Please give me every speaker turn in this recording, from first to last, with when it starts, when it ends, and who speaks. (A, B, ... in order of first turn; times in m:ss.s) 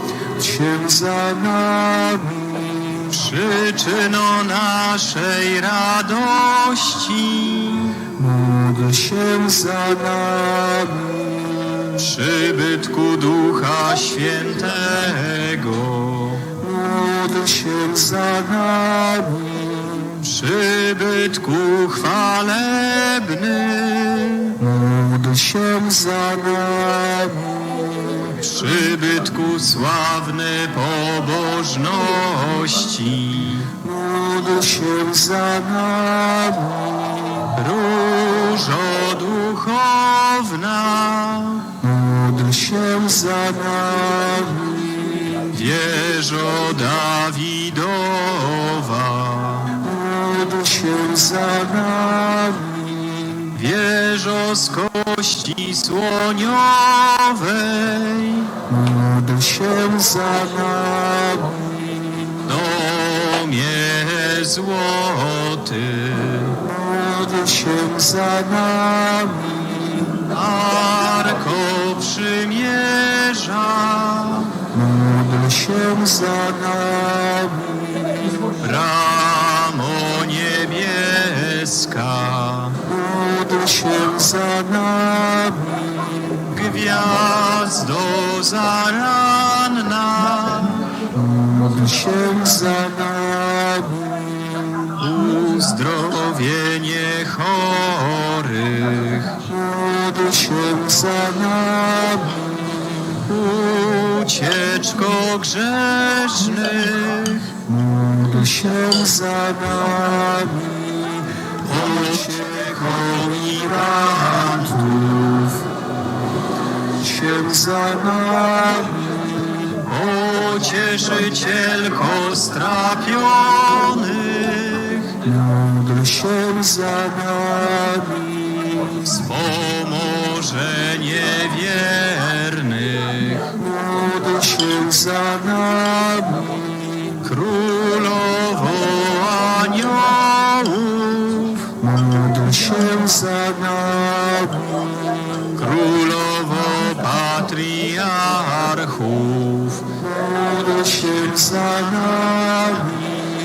0:00.4-0:03.1 A
0:03.1-0:08.0 B
0:08.2-0:11.9 A
0:12.0-0:16.5 B
0:16.6-0:20.2 A
0:20.2-0:24.6 B
0:24.6-0:28.1 A
0:28.3-0:33.7 B
0:33.8-0:37.5 A
0:37.5-0:41.7 B
0:41.8-0:45.5 A
0:45.5-0:49.8 B
0:49.8-0:53.5 A
0:53.5-0:58.5 B
0:58.7-1:01.9 A
1:02.4-1:06.6 B
1:06.6-1:10.1 A
1:10.3-1:14.5 B
1:14.7-1:18.2 A
1:18.6-1:22.8 B
1:22.8-1:26.5 A
1:26.5-1:31.0 B
1:31.1-1:34.2 A
1:35.0-1:39.4 B
1:39.4-1:43.1 A
1:43.2-1:47.6 B
1:47.6-1:54.0 A
1:51.6-1:55.6 B
1:55.0-1:55.2 A
1:57.0-1:59.2 A
1:59.7-2:05.2 B
2:05.2-2:09.2 A
2:09.0-2:13.5 B
2:13.5-2:16.7 A
2:17.2-2:21.7 B
2:21.8-2:25.2 A
2:25.5-2:29.9 B
2:30.0-2:33.0 A